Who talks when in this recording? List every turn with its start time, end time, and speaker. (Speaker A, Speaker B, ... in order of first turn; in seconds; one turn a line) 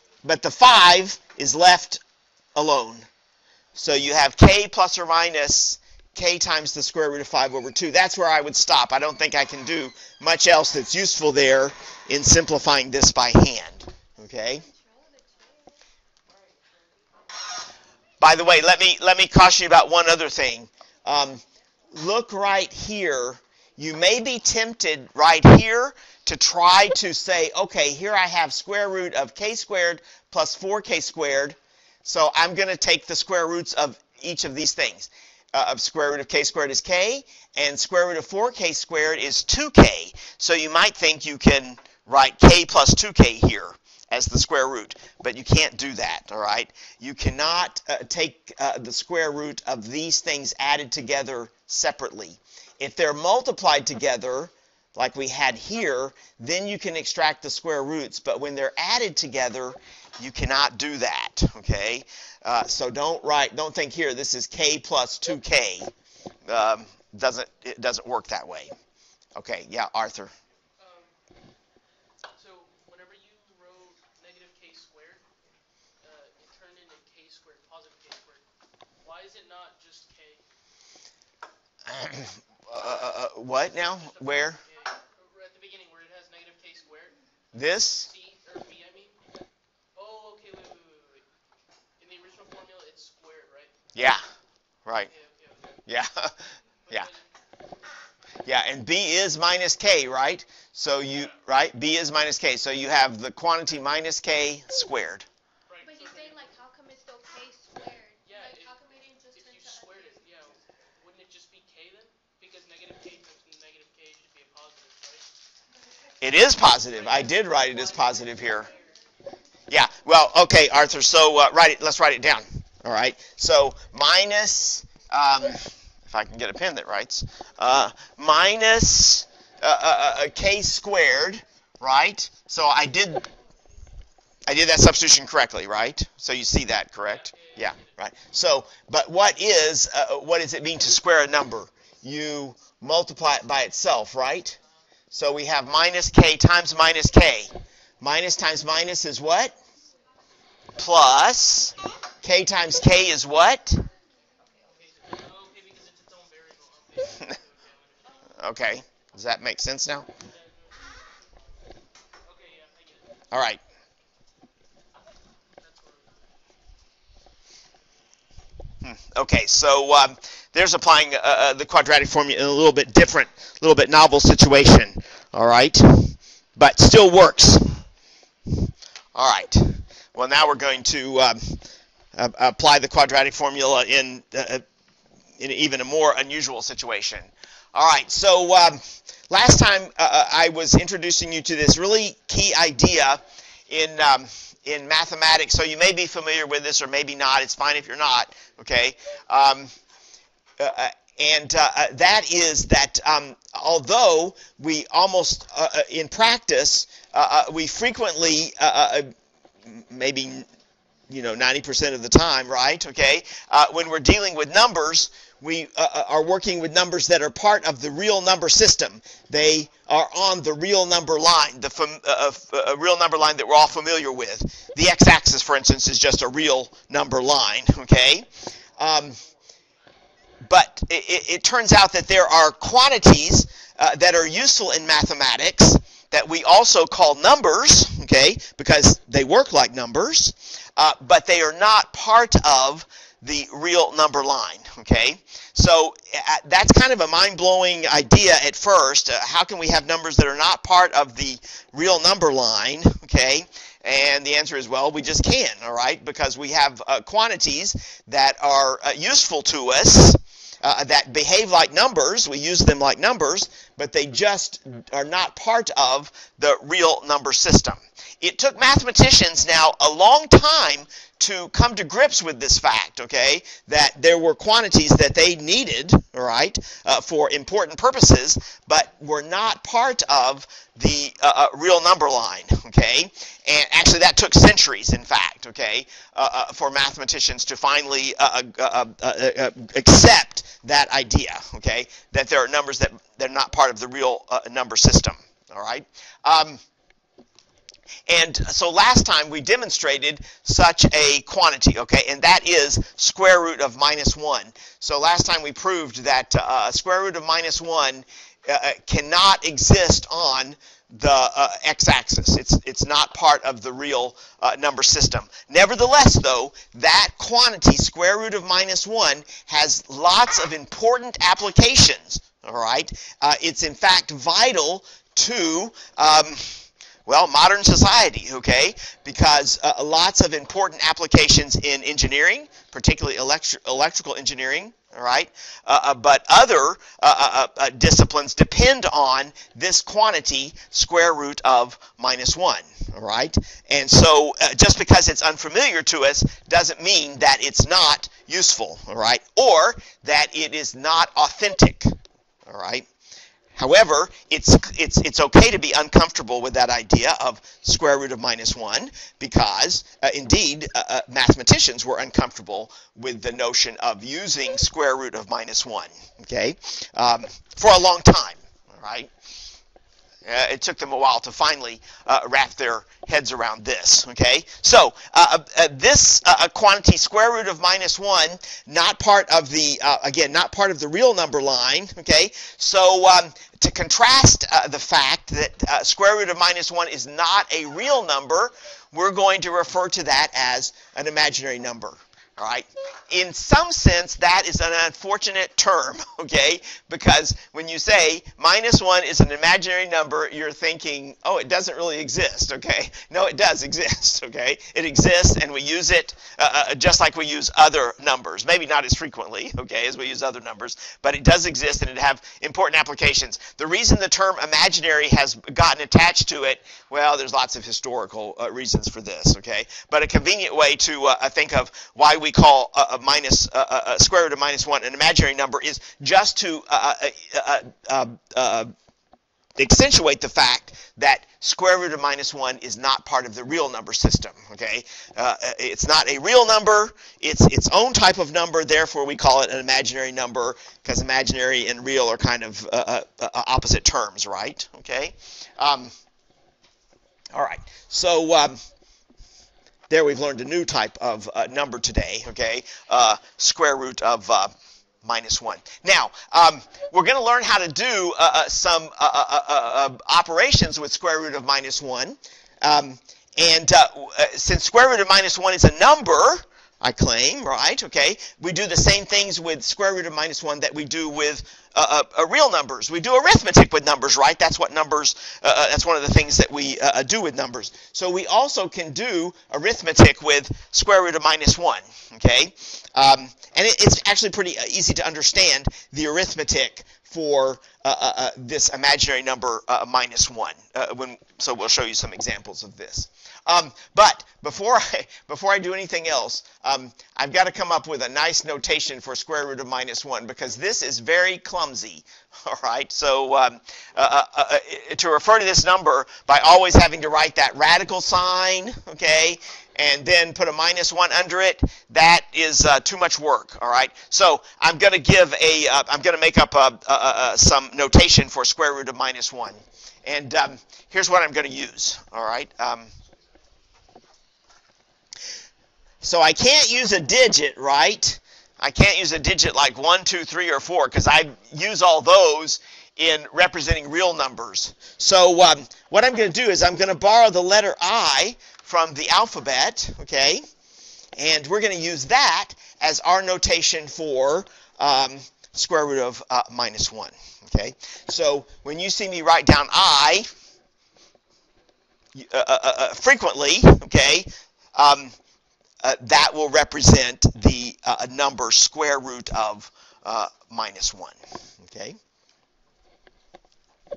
Speaker A: 0.2-2.0
Speaker A: 2.5-3.1
Speaker A: 3.8-14.6
Speaker B: 14.5-15.8
Speaker A: 18.2-65.9
Speaker A: 66.5-68.7
Speaker A: 69.3-70.3
Speaker C: 70.8-71.1
Speaker C: 72.3-75.3
Speaker C: 76.0-78.5
Speaker C: 79.0-80.4
Speaker A: 81.9-84.6
Speaker C: 83.9-87.2
Speaker A: 87.5-88.1
Speaker C: 88.0-89.2
Speaker C: 89.9-91.2
Speaker C: 92.0-93.8
Speaker A: 93.9-94.2
Speaker C: 95.1-95.8
Speaker A: 95.9-96.3
Speaker C: 96.8-97.3
Speaker A: 98.5-105.2
Speaker C: 101.1-101.4
Speaker C: 105.7-106.4
Speaker B: 105.8-110.4
Speaker C: 108.2-108.8
Speaker C: 109.3-115.3
Speaker A: 116.2-118.7
Speaker C: 116.9-118.8
Speaker B: 118.4-118.7
Speaker A: 119.7-133.3
Speaker A: 134.5-144.6
Speaker C: 137.0-137.9
Speaker A: 145.1-149.5
Speaker A: 150.8-153.8
Speaker C: 154.7-158.3
Speaker A: 158.4-160.1
Speaker C: 160.2-160.8
Speaker C: 162.2-163.1
Speaker A: 163.3-163.6
Speaker C: 165.6-166.3
Speaker A: 168.8-177.8
Speaker A: 179.1-181.6
Speaker A: 182.1-184.6
Speaker A: 185.4-199.7
Speaker A: 200.6-209.1
Speaker A: 209.7-210.5
Speaker A: 211.1-229.2
Speaker A: 230.4-296.6
Speaker A: 298.1-351.9
Speaker A: 352.5-352.9
Speaker A: 353.5-369.1
Speaker A: 370.2-428.7
Speaker A: 429.6-445.9
Speaker A: 447.3-448.6
Speaker A: 449.9-522.9
Speaker A: 526.0-540.4
Speaker A: 541.2-550.3
Speaker A: 552.1-555.1
Speaker A: 555.8-562.0